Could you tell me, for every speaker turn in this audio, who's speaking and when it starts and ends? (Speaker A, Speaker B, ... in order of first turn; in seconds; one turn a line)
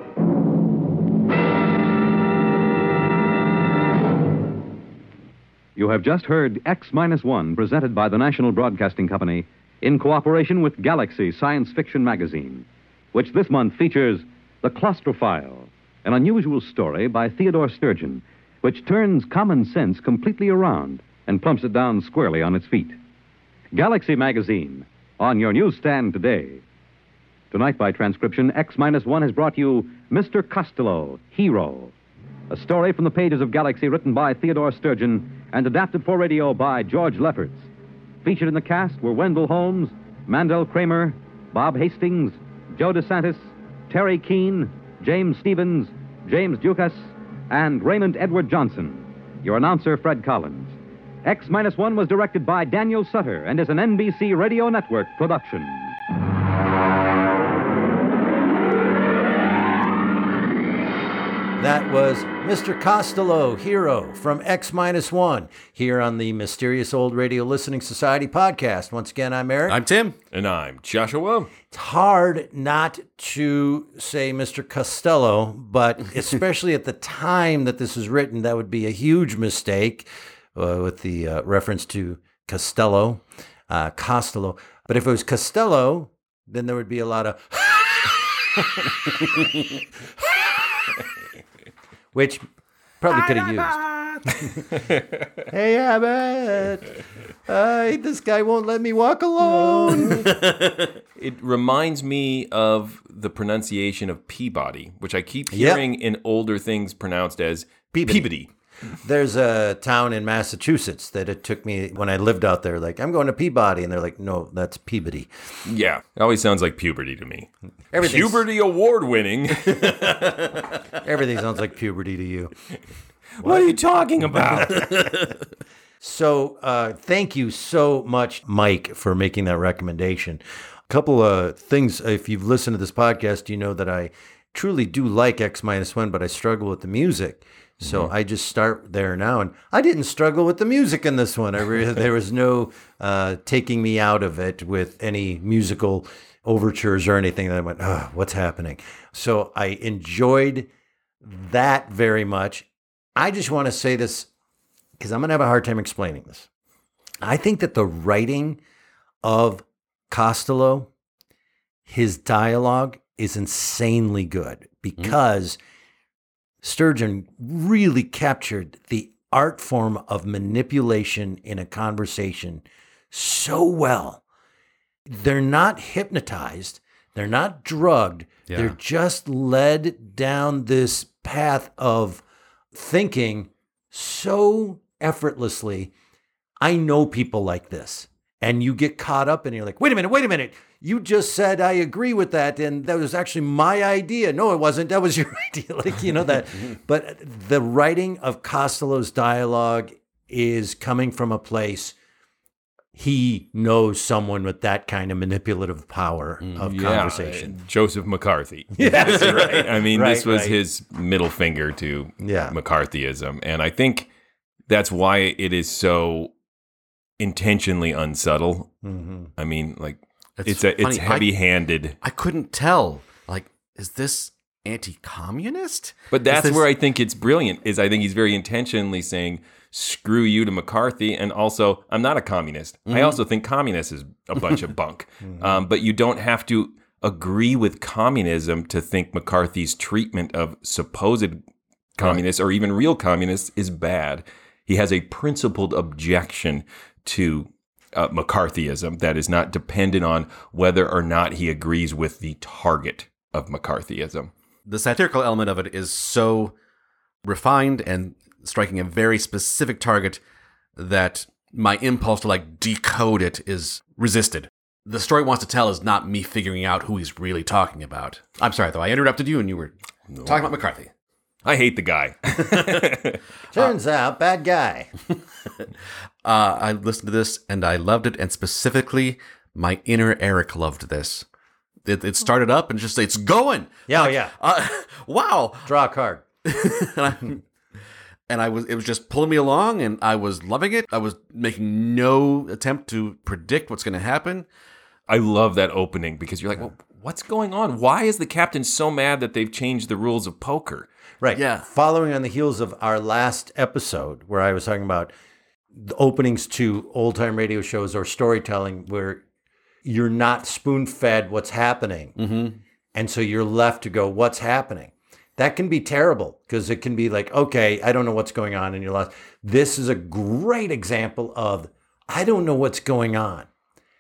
Speaker A: 5.8-23.0
Speaker A: 23.7-26.6
Speaker A: 27.5-31.9
Speaker A: 32.5-37.7
Speaker A: 38.2-56.0
Speaker B: 61.6-69.8
Speaker C: 69.7-70.2
Speaker D: 70.3-71.5
Speaker B: 71.7-88.6
Speaker B: 92.1-92.4
Speaker B: 93.0-93.8
Speaker B: 95.5-96.9
Speaker B: 97.5-100.3
Speaker C: 100.1-100.8
Speaker D: 101.2-108.5
Speaker B: 105.5-105.8
Speaker B: 107.9-108.3
Speaker B: 109.0-115.3
Speaker D: 115.7-120.3
Speaker B: 117.9-118.4
Speaker B: 121.0-122.5
Speaker D: 123.4-124.9
Speaker B: 123.4-123.7
Speaker B: 126.0-150.7
Speaker D: 137.8-138.1
Speaker B: 151.2-154.3
Speaker B: 155.0-156.5
Speaker B: 157.2-158.6
Speaker B: 159.2-160.9
Speaker B: 161.9-165.6
Speaker B: 166.6-174.2
Speaker B: 175.1-182.2
Speaker C: 178.5-178.8
Speaker B: 182.7-185.9
Speaker B: 186.6-201.9
Speaker B: 202.9-207.6
Speaker D: 206.6-214.1
Speaker B: 208.8-210.6
Speaker B: 212.2-212.6
Speaker D: 214.7-216.3
Speaker D: 217.2-218.7
Speaker B: 218.8-219.3
Speaker D: 219.4-222.0
Speaker C: 220.4-221.3
Speaker C: 222.0-226.7
Speaker D: 226.1-241.4
Speaker C: 232.9-233.2
Speaker D: 242.0-254.3
Speaker C: 254.7-256.5
Speaker C: 257.2-260.2
Speaker C: 260.8-269.7
Speaker D: 270.1-270.6
Speaker C: 270.2-270.9
Speaker D: 271.4-273.2
Speaker B: 273.5-274.9
Speaker C: 276.2-281.2
Speaker C: 281.9-285.7
Speaker B: 283.9-284.3
Speaker B: 285.7-286.3
Speaker C: 286.5-287.4
Speaker C: 288.3-294.5
Speaker D: 295.1-300.9
Speaker B: 301.2-305.1
Speaker C: 301.4-301.6
Speaker B: 305.8-309.2
Speaker B: 309.9-312.1
Speaker C: 312.2-312.6
Speaker B: 312.9-323.5